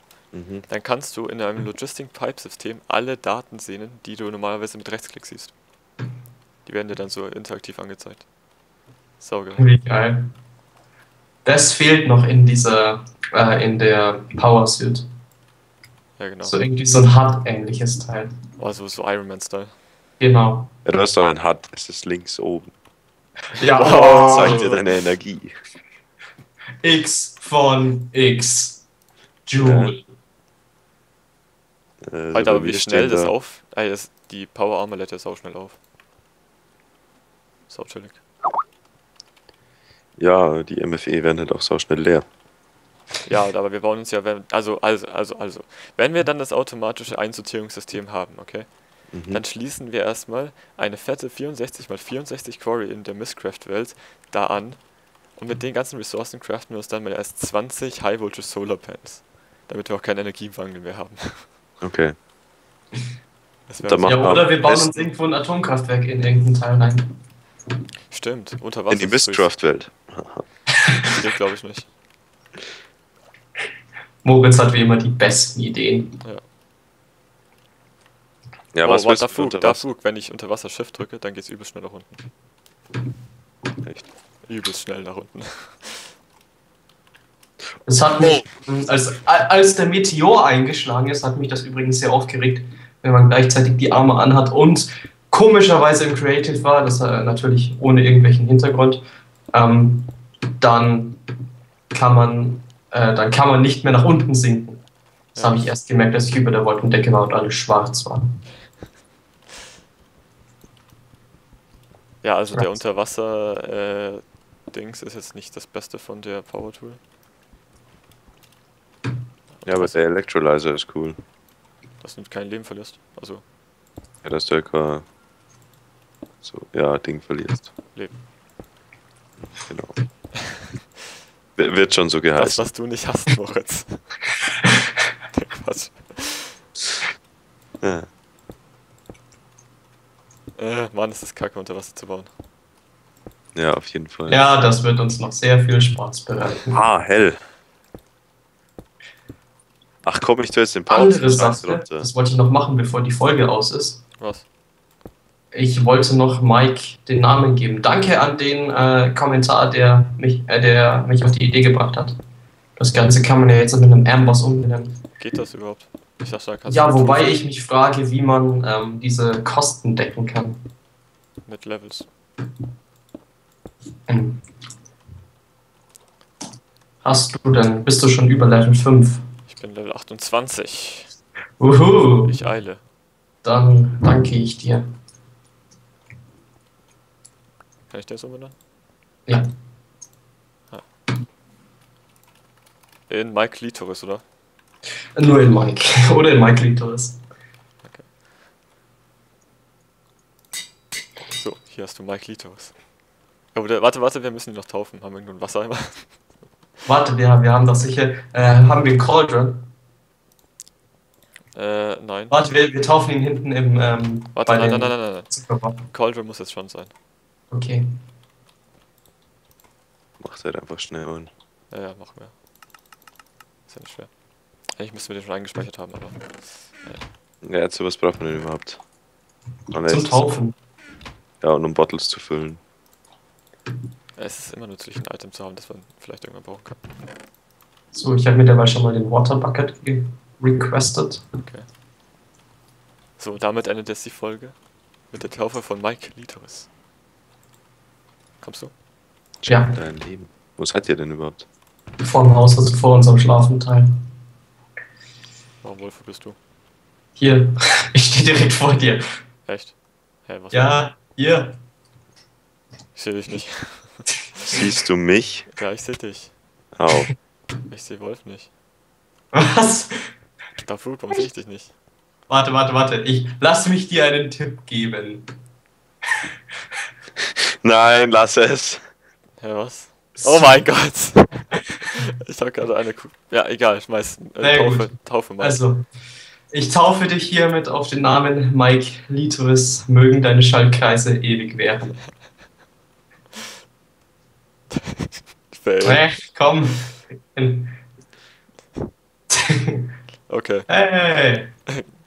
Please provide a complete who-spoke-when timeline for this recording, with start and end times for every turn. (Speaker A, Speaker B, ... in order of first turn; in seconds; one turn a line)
Speaker A: 0.3-0.7
Speaker B: 0.7-5.5
Speaker B: 6.7-8.3
Speaker B: 9.2-9.7
Speaker C: 9.6-10.3
Speaker C: 11.4-15.1
Speaker B: 16.2-16.6
Speaker C: 16.4-18.3
Speaker B: 18.6-19.8
Speaker C: 20.2-20.7
Speaker A: 20.9-22.7
Speaker C: 23.6-24.7
Speaker B: 23.6-24.8
Speaker A: 24.1-25.5
Speaker C: 26.8-28.8
Speaker C: 29.5-30.0
Speaker A: 29.6-29.9
Speaker A: 32.0-33.3
Speaker B: 32.3-35.8
Speaker B: 37.7-38.2
Speaker A: 40.2-42.3
Speaker B: 43.2-61.5
Speaker A: 49.1-49.4
Speaker A: 61.8-62.2
Speaker B: 63.7-64.5
Speaker A: 63.9-65.0
Speaker C: 64.0-67.1
Speaker B: 68.1-69.5
Speaker A: 68.9-70.5
Speaker B: 71.2-71.9
Speaker C: 74.2-76.2
Speaker A: 78.7-79.9
Speaker B: 78.8-82.2
Speaker B: 84.4-86.1
Speaker C: 87.8-101.2
Speaker C: 101.9-104.8
Speaker B: 105.3-105.8
Speaker C: 105.4-108.2
Speaker B: 112.2-117.0
Speaker B: 119.5-120.1
Speaker A: 119.7-121.2
Speaker B: 122.0-123.4
Speaker A: 124.2-125.1
Speaker A: 126.4-127.7
Speaker A: 129.5-130.0
Speaker A: 131.6-132.7
Speaker B: 132.3-134.2
Speaker B: 135.3-136.6
Speaker A: 137.8-138.1
Speaker B: 140.6-142.3
Speaker A: 143.6-144.5
Speaker C: 144.3-146.8
Speaker A: 146.7-147.4
Speaker A: 150.0-152.1
Speaker C: 150.9-154.0
Speaker B: 154.2-154.5
Speaker C: 155.5-162.2
Speaker C: 162.8-165.0
Speaker B: 165.2-167.4
Speaker C: 166.7-170.6
Speaker B: 171.5-172.1
Speaker C: 174.1-174.4
Speaker C: 177.0-179.2
Speaker B: 179.5-181.1
Speaker C: 181.6-182.3
Speaker B: 182.1-182.8
Speaker C: 183.4-184.8
Speaker B: 187.9-188.6
Speaker B: 193.1-194.2
Speaker C: 195.2-197.2
Speaker B: 197.8-198.1
Speaker B: 201.3-202.8
Speaker B: 203.5-206.2
Speaker C: 206.8-209.7
Speaker B: 211.5-212.4
Speaker C: 212.3-215.8
Speaker B: 214.3-216.9
Speaker C: 217.5-217.8
Speaker A: 220.2-221.3
Speaker B: 221.7-222.3
Speaker B: 223.7-224.1
Speaker B: 224.6-227.1
Speaker A: 227.4-228.8
Speaker A: 229.7-230.4
Speaker C: 229.9-230.6
Speaker A: 231.4-232.6
Speaker B: 234.2-236.8
Speaker C: 237.9-241.2
Speaker B: 241.4-241.7
Speaker B: 243.2-246.7
Speaker B: 248.4-248.7
Speaker A: 249.4-251.5
Speaker C: 249.5-249.8
Speaker C: 252.0-253.9
Speaker B: 255.6-256.4
Speaker C: 257.2-259.0
Speaker B: 259.5-260.9
Speaker C: 260.5-261.6
Speaker B: 262.9-264.1
Speaker A: 264.5-265.5
Speaker B: 265.6-266.4
Speaker A: 266.8-267.1
Speaker B: 267.7-268.5
Speaker C: 269.3-270.1
Speaker B: 270.6-271.7
Speaker C: 272.3-275.3
Speaker A: 277.2-278.8
Speaker B: 279.4-285.6
Speaker C: 280.2-280.9
Speaker C: 284.4-285.9
Speaker C: 286.5-292.1
Speaker B: 294.7-296.3
Speaker C: 295.8-297.8
Speaker C: 299.3-299.9
Speaker B: 300.3-300.7
Speaker C: 300.7-301.5